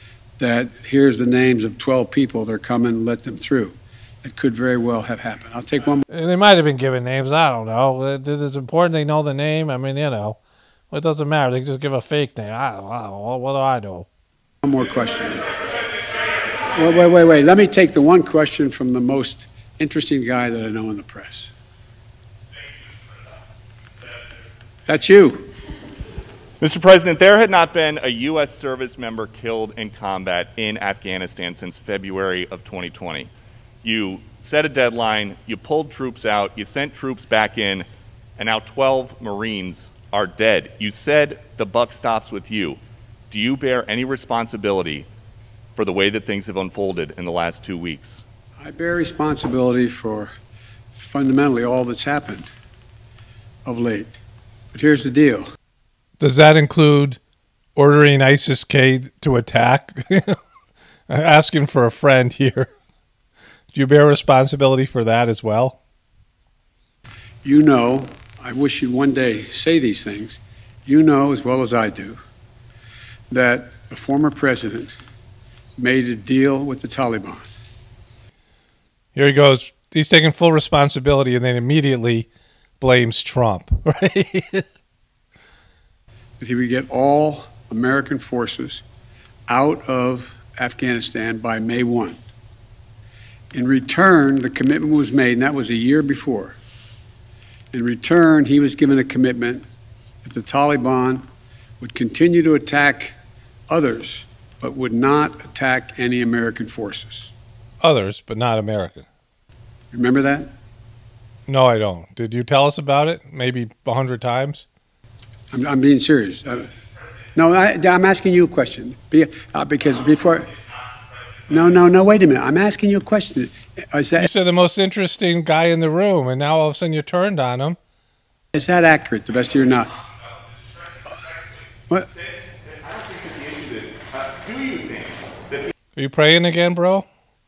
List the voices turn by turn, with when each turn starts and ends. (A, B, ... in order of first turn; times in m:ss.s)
0:00.4-0:06.0 A
0:06.1-0:10.4 B
0:10.9-0:14.1 B
0:14.6-0:15.4 A
0:16.7-0:21.5 A
0:24.9-0:25.5 A
0:26.6-0:33.3 C
0:33.8-0:37.9 C
0:38.4-0:42.8 C
0:43.3-0:45.1 C
0:45.8-0:48.2 C
0:48.6-0:50.3 A
0:50.9-0:52.5 A
0:53.6-0:54.2 A
0:54.7-0:55.5 A
0:56.2-0:57.2 B
0:57.8-1:00.4 B
1:01.1-1:02.7 B
1:03.7-1:05.8 B
1:07.4-1:12.2 A
1:13.3-1:14.9 A
1:15.8-1:17.5 A
1:19.1-1:22.3 B
1:22.8-1:24.6 B
1:26.4-1:28.8 A
1:29.5-1:32.2 A
1:33.5-1:36.6 A
1:37.7-1:39.6 A
1:40.2-1:41.2 A
1:41.8-1:43.2 A
1:43.7-1:47.3 A
1:47.8-1:49.1 B
1:49.9-1:50.5 A
1:51.5-1:54.7 B
1:55.5-1:56.7 A
1:57.3-2:00.5 A
2:01.5-2:04.3 A
2:04.2-2:07.8 B
2:08.5-2:09.9 A
2:12.1-2:15.7 C
2:16.0-2:17.1 B